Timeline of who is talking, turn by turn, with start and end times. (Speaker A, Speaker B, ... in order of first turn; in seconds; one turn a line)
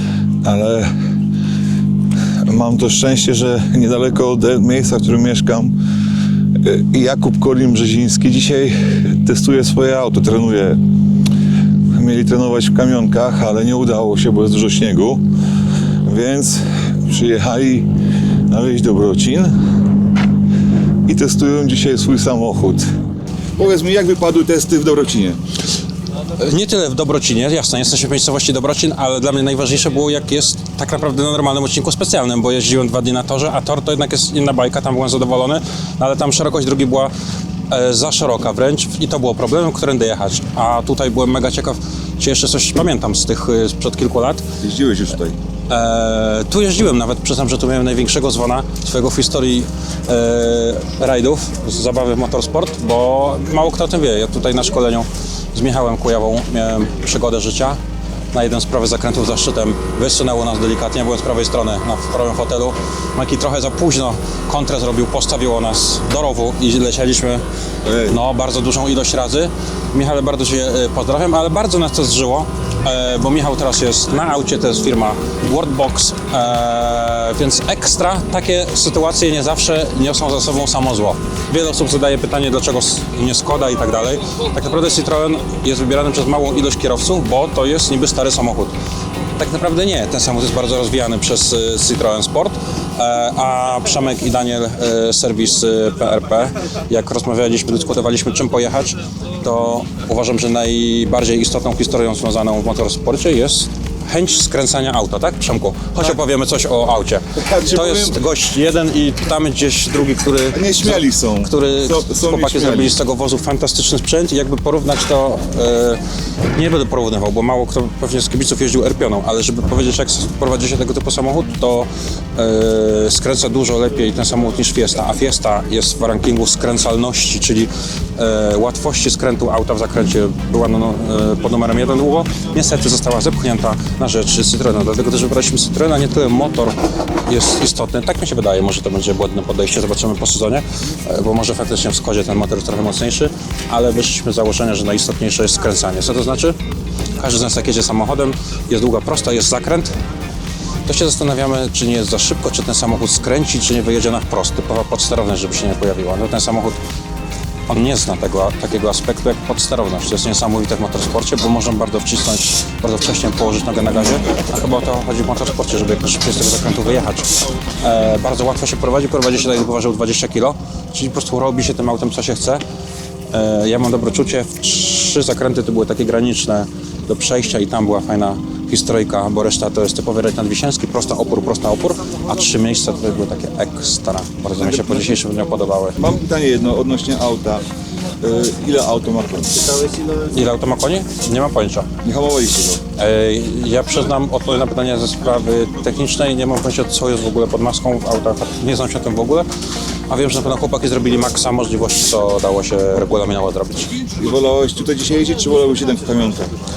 Speaker A: 0.4-0.9
Speaker A: 2.4-5.8
Speaker A: 6.5-10.8
Speaker A: 11.9-15.2
Speaker A: 16.0-17.9
Speaker A: 18.5-19.5
Speaker A: 21.0-22.8
Speaker A: 23.6-25.4
Speaker B: 26.3-37.1
Speaker B: 37.7-44.5
Speaker A: 44.6-45.4
Speaker B: 45.7-57.8
Speaker B: 58.3-67.4
Speaker A: 67.8-68.2
Speaker B: 68.0-88.7
Speaker B: 89.3-146.6
Speaker A: 107.3-108.2
Speaker A: 110.5-113.0
Speaker B: 147.2-149.9
Speaker B: 150.8-156.8
Speaker B: 157.7-172.6
Speaker B: 173.3-186.0
Speaker A: 184.6-185.2
Speaker A: 186.0-187.6
Speaker A: 188.2-189.9
Speaker B: 189.9-191.9
Speaker A: 192.0-192.8
Speaker B: 192.9-199.5
Speaker B: 200.1-204.0
Speaker A: 204.1-206.5